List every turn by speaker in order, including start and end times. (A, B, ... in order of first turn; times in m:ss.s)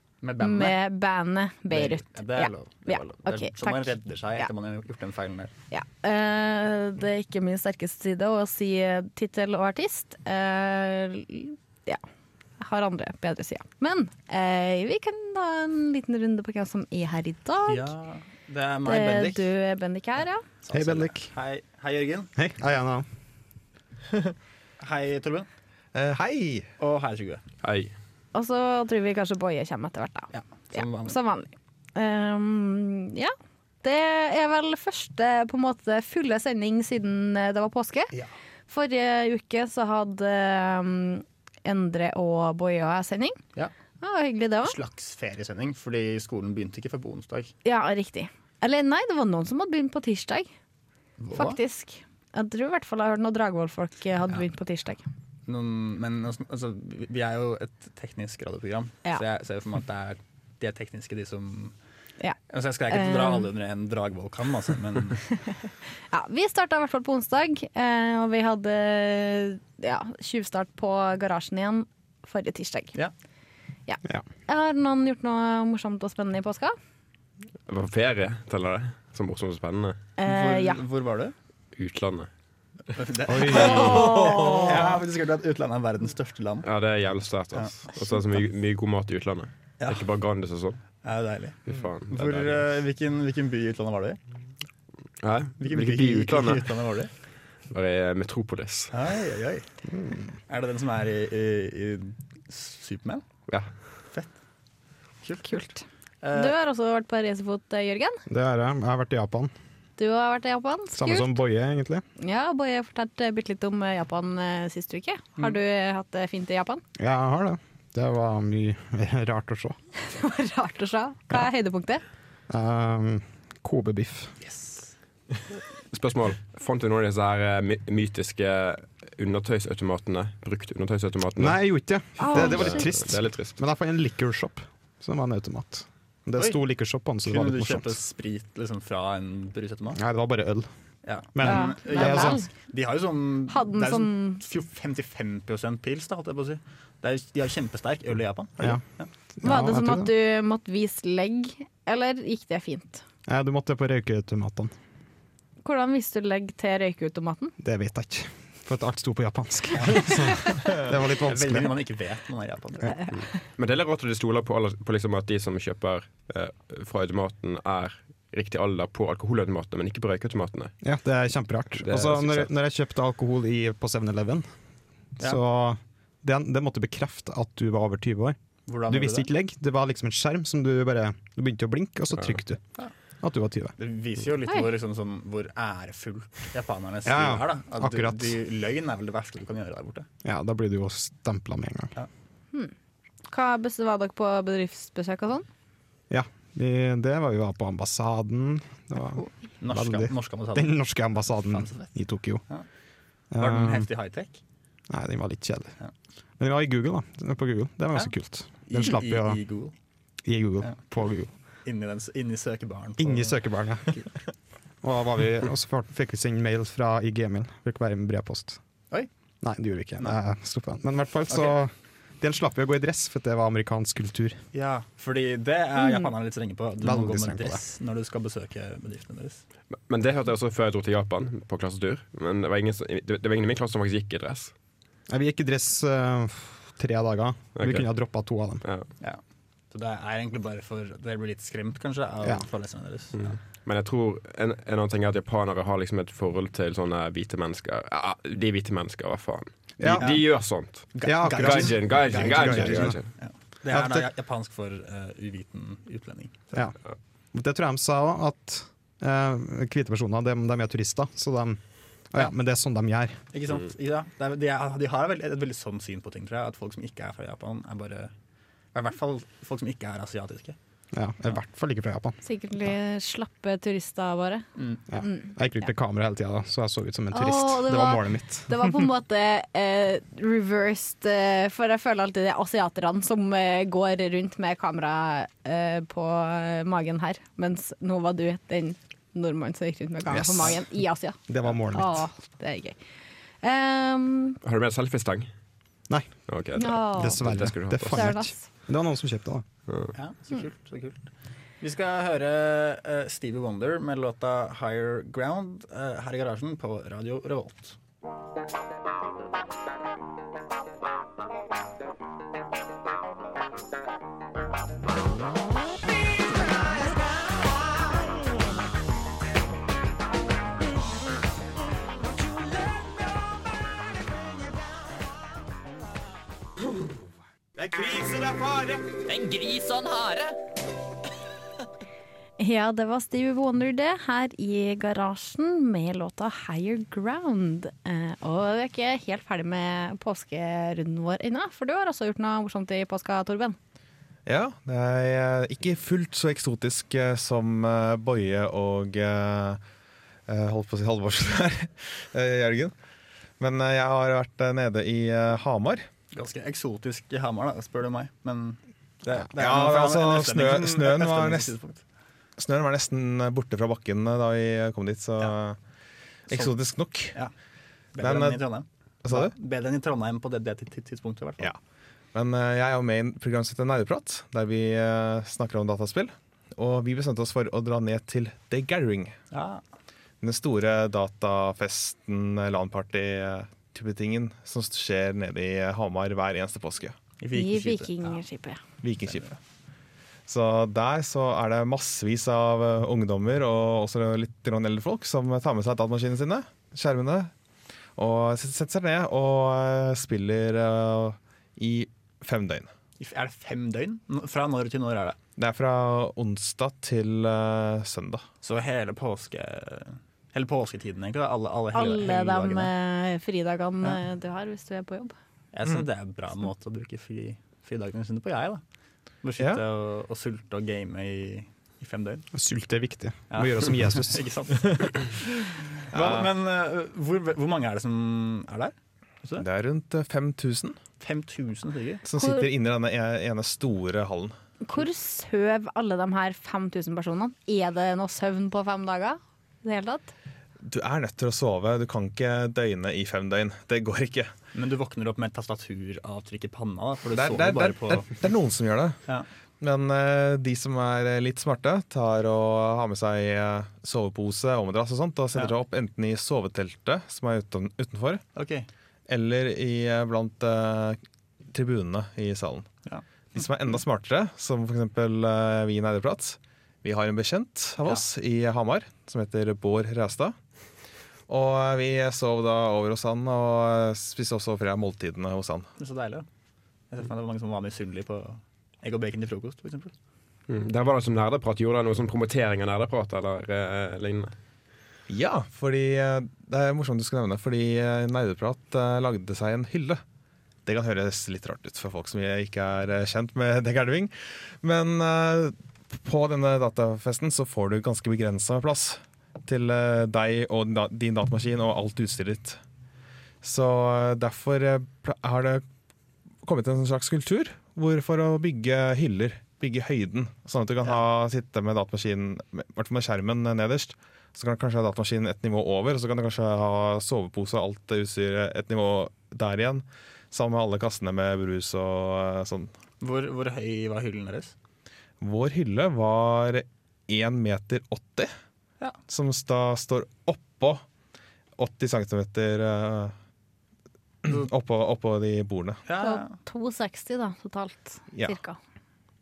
0:00.2-0:00.8 A
0:00.4-0:04.5 B
0:01.7-0:05.5 A
0:05.7-0:12.0 B
0:12.6-0:17.9 B
0:17.7-0:19.5 A
0:18.8-0:20.4 B
0:20.6-0:22.3 A
0:20.7-0:21.3 C
0:22.4-0:23.0 C
0:24.8-0:25.5 A
0:25.9-0:26.7 D
0:26.8-0:27.4 A
0:27.6-0:27.9 E
0:28.3-0:38.1 B
0:30.3-0:31.2 A
0:38.7-0:43.4 B
0:44.0-0:44.8 B
0:44.6-0:47.5 A
0:47.6-0:50.5 B
0:51.2-0:51.6 A
0:51.3-0:55.0 B
0:55.5-1:01.7 A
1:02.2-1:03.5 B
1:02.5-1:05.2 A
1:06.1-1:13.0 B
1:13.9-1:16.7 B
1:17.7-1:20.0 E
1:20.2-1:20.8 B
1:20.2-1:21.3 A
1:21.8-1:22.3 E
1:23.0-1:26.7 A
1:23.3-1:24.1 C
1:23.5-1:24.9 B
1:26.6-1:30.8 E
1:27.5-1:28.3 A
1:29.8-1:30.0 A
1:31.0-1:34.2 A
1:31.6-1:32.7 E
1:35.2-1:36.8 E
1:35.6-1:37.1 A
1:37.7-1:38.9 E
1:38.9-1:39.6 A
1:40.0-1:40.2 C
1:40.5-1:43.2 A
1:45.4-1:48.2 B
1:46.2-1:46.5 A
1:48.3-1:49.5 C
1:50.0-1:51.4 B
1:51.0-1:52.0 C
1:52.2-1:56.8 B
1:57.0-1:59.8 C
2:00.0-2:02.0 B
2:02.5-2:04.3 C
2:04.4-2:04.9 A
2:05.9-2:11.6 E
2:11.4-2:18.0 C
2:12.2-2:12.9 B
2:12.3-2:13.6 E
2:17.2-2:20.0 A
2:19.9-2:20.7 C
2:21.0-2:29.1 A
2:21.3-2:22.4 C
2:21.4-2:22.5 B
2:23.5-2:24.4 B
2:29.4-2:30.1 C
2:29.4-2:33.0 B
2:33.2-2:34.7 C
2:35.6-2:37.5 B
2:37.6-2:41.8 C
2:39.7-2:40.1 A
2:40.8-2:43.0 A
2:43.5-2:50.7 E
2:50.8-2:54.5 C
2:51.8-2:52.5 E
2:55.2-3:02.6 C
2:58.7-2:59.3 A
3:03.2-3:03.8 C
3:03.8-3:10.1 A
3:07.0-3:08.4 C
3:10.2-3:11.9 C
3:13.3-3:15.4 B
3:16.1-3:22.4 C
3:19.1-3:20.7 A
3:21.5-3:21.9 A
3:23.3-3:23.9 C
3:23.4-3:24.4 A
3:24.9-3:25.7 C
3:26.4-3:29.4 C
3:28.7-3:29.7 A
3:30.2-3:31.3 C
3:31.6-3:34.1 A
3:33.0-3:33.9 C
3:34.8-3:38.6 C
3:39.4-3:44.4 C
3:44.5-3:49.4 A
3:45.8-3:46.1 B
3:46.8-3:47.6 C
3:49.9-3:54.5 E
3:55.1-3:58.6 C
3:57.6-3:57.9 E
3:59.0-4:03.4 A
4:03.2-4:13.1 E
4:09.8-4:10.2 C
4:10.9-4:16.5 A
4:11.0-4:13.0 C
4:13.7-4:14.1 C
4:17.3-4:23.2 C
4:23.3-4:28.1 A
4:28.7-4:30.6 A
4:30.9-4:32.2 C
4:32.2-4:34.4 B
4:34.6-4:34.8 A
4:34.9-4:38.5 C
4:35.0-4:35.3 B
4:37.1-4:52.8 B
4:50.1-4:50.7 C
4:51.3-4:52.0 C
4:53.4-4:54.4 B
4:54.4-4:55.3 E
4:55.9-4:56.3 C
4:56.3-4:58.1 E
4:56.6-4:57.3 B
4:56.9-4:59.4 C
4:57.9-4:58.4 B
4:59.7-4:59.9 E
4:59.9-5:01.0 A
5:01.6-5:07.8 A
5:27.6-5:28.4 F
5:29.1-5:30.2 F
5:32.4-5:43.6 B
5:44.2-5:49.6 D
5:50.3-5:52.7 D
5:53.4-5:55.9 D
5:56.1-6:01.8 A
5:59.3-6:01.5 D
6:02.4-6:05.6 D
6:06.3-6:07.2 D
6:07.9-6:11.5 A
6:08.0-6:08.5 D
6:09.0-6:09.3 D
6:12.1-6:19.2 D
6:19.3-6:19.6 A
6:20.2-6:27.0 D
6:27.2-6:28.2 A
6:27.3-6:28.6 B
6:28.8-6:29.2 D
6:29.0-6:29.4 A
6:30.3-6:37.3 D
6:38.0-6:42.7 D
6:43.0-6:45.2 A
6:45.4-6:48.2 D
6:48.4-6:52.7 A
6:51.7-6:55.1 B
6:55.5-6:58.6 A
6:59.2-7:02.3 A
7:02.3-7:04.2 C
7:03.3-7:09.4 A
7:05.9-7:06.2 D
7:09.4-7:10.8 D
7:11.0-7:12.0 A
7:12.0-7:14.4 D
7:12.2-7:12.4 B
7:14.6-7:20.1 B
7:20.6-7:24.3 D
7:24.5-7:28.1 A
7:27.1-7:29.0 D
7:29.6-7:38.2 D
7:38.3-7:38.7 A
7:39.1-7:41.0 D
7:41.5-7:42.7 D
7:42.8-7:43.4 A
7:43.3-7:50.3 D
7:51.3-7:55.7 D
7:55.8-7:56.2 A
7:56.9-7:59.9 A
8:00.5-8:04.3 E
8:05.1-8:10.0 D
8:10.6-8:22.6 D
8:23.4-8:25.6 D
8:26.4-8:42.7 D
8:43.0-8:44.5 A
8:45.2-8:48.3 D
8:49.1-8:50.8 D
8:51.6-8:53.1 D
8:54.2-8:55.8 D
8:55.8-8:56.4 A
8:56.0-8:58.6 B